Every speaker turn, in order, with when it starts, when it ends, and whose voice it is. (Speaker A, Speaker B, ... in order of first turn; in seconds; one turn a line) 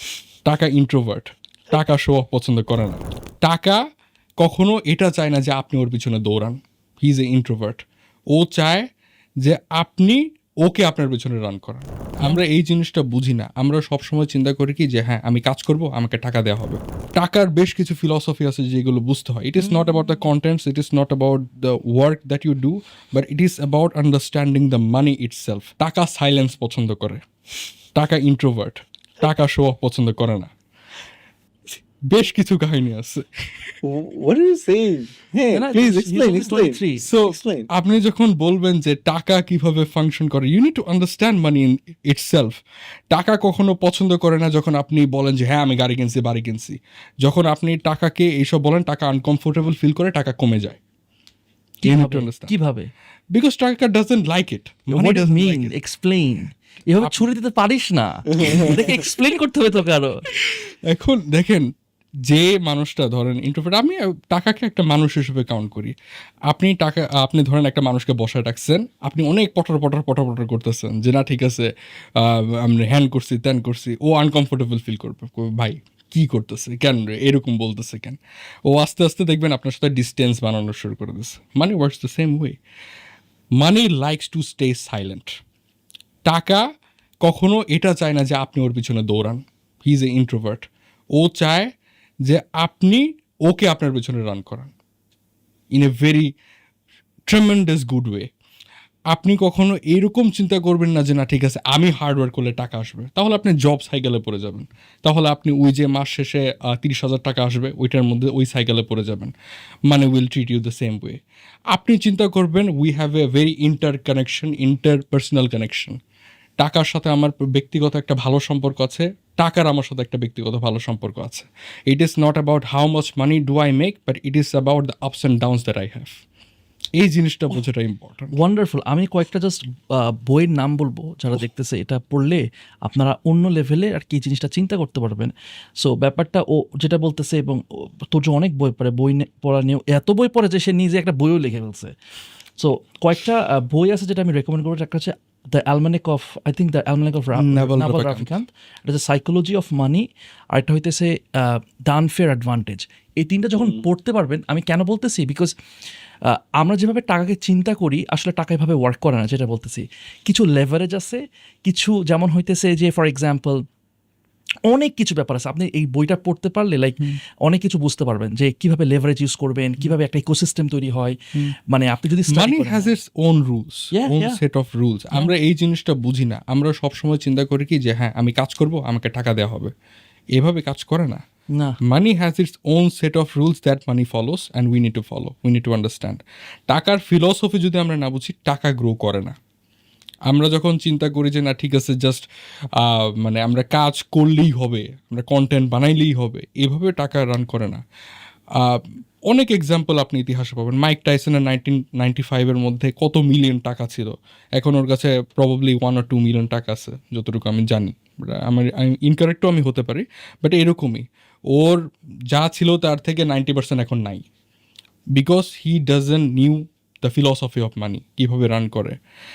Speaker A: 0.5-3.8
Speaker A: 4.4-8.9
Speaker A: 9.4-27.2
Speaker B: 19.6-20.2
Speaker A: 27.9-30.5
Speaker A: 32.1-33.7
Speaker C: 33.8-37.7
Speaker B: 35.5-37.0
Speaker A: 37.0-42.6
Speaker A: 43.1-50.8
Speaker B: 51.8-52.9
Speaker A: 51.9-52.5
Speaker A: 53.3-55.8
Speaker B: 54.9-60.2
Speaker A: 58.4-58.8
Speaker A: 60.4-61.7
Speaker A: 62.3-65.9
Speaker A: 66.5-82.6
Speaker A: 83.6-85.4
Speaker A: 86.2-86.6
Speaker A: 87.2-91.7
Speaker A: 92.2-94.7
Speaker A: 95.7-96.3
Speaker A: 97.3-98.3
Speaker A: 99.1-109.3
Speaker A: 109.9-111.2
Speaker A: 111.7-116.0
Speaker A: 116.6-126.2
Speaker A: 127.0-128.4
Speaker B: 128.3-141.9
Speaker B: 142.6-155.5
Speaker A: 147.4-148.3
Speaker C: 153.6-153.8
Speaker B: 156.2-163.6
Speaker B: 164.7-172.9
Speaker A: 172.3-179.7
Speaker B: 173.9-174.4
Speaker A: 180.3-181.2
Speaker A: 181.9-189.3
Speaker A: 190.3-192.2
Speaker A: 192.8-197.8
Speaker A: 198.6-214.2
Speaker A: 215.2-219.0